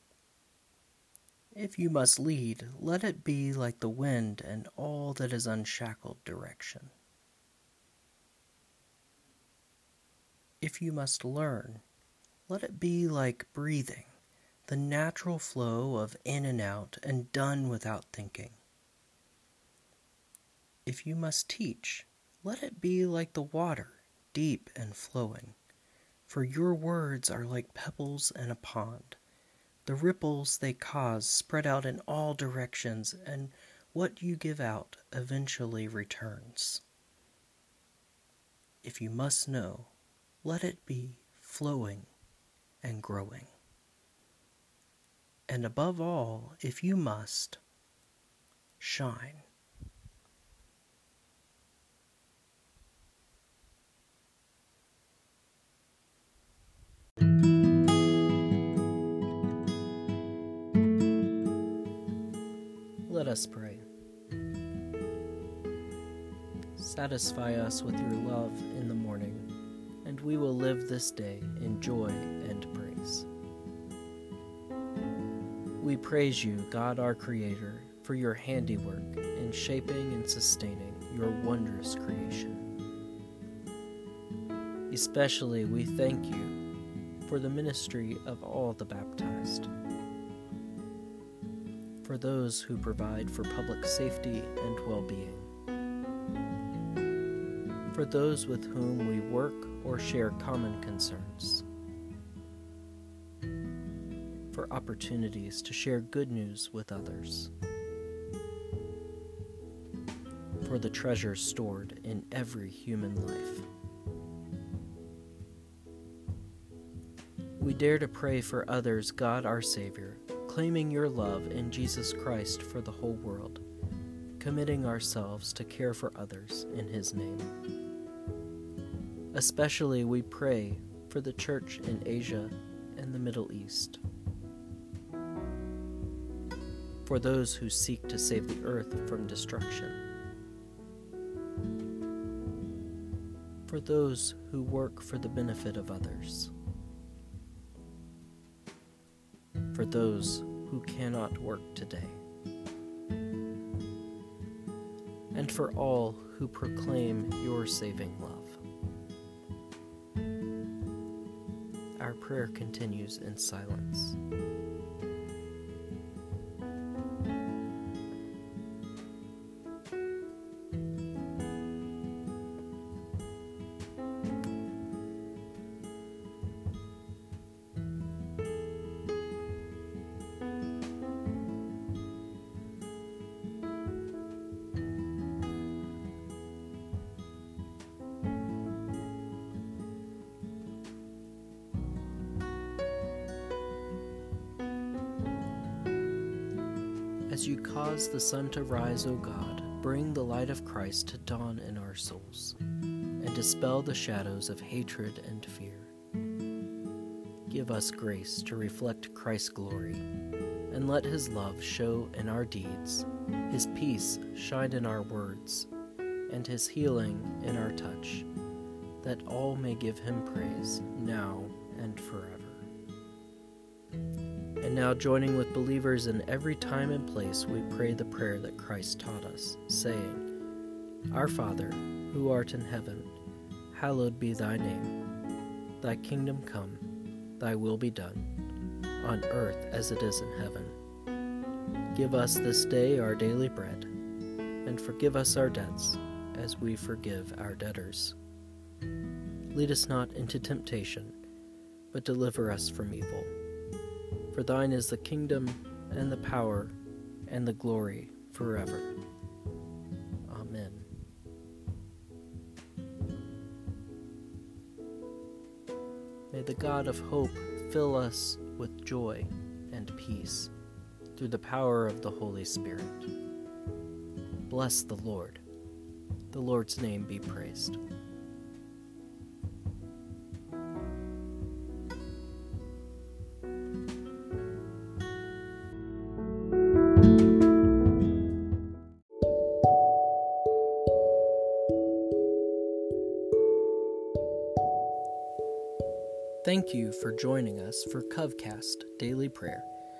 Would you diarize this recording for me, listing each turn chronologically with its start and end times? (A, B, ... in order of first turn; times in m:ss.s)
0:01.5-0:06.9 A
0:10.6-0:11.8 A
0:12.5-0:14.2 A
0:14.7-0:18.6 A
0:20.9-0:25.6 A
0:26.3-0:29.2 A
0:29.9-0:36.8 A
0:38.8-0:39.9 A
0:40.4-0:42.1 A
0:42.8-0:43.5 A
0:45.5-0:47.6 A
0:48.8-0:49.5 A
1:03.1-1:03.9 A
1:06.8-1:09.5 A
1:10.0-1:13.3 A
1:15.8-1:22.7 A
1:24.9-1:26.6 A
1:27.2-1:29.7 A
1:32.0-1:35.5 A
1:37.9-1:41.6 A
1:44.5-1:47.5 A
1:50.6-1:53.7 A
1:57.6-2:03.6 A
2:04.4-2:07.5 A
2:09.3-2:14.0 A
2:17.0-2:20.0 A
2:23.7-2:26.5 A
2:29.7-2:32.2 A
2:35.3-2:38.6 A
2:42.0-2:44.2 A
3:17.3-3:22.6 A
3:23.2-3:25.9 A
3:27.5-3:30.0 A
3:30.7-3:35.7 A
3:36.3-3:38.3 A
3:39.0-3:42.7 A
3:44.6-3:50.3 A
3:51.1-3:53.1 A
3:53.7-3:55.0 A
3:55.8-3:56.9 A
3:57.4-3:58.3 A
3:59.0-4:00.8 A
4:01.9-4:03.9 A
4:04.6-4:08.2 A
4:09.5-4:11.2 A
4:11.9-4:13.3 A
4:14.3-4:18.9 A
4:20.3-4:20.9 A
4:26.3-4:30.5 A
4:31.2-4:33.1 A
4:34.5-4:35.4 A
4:36.3-4:37.8 A
4:56.4-4:59.7 A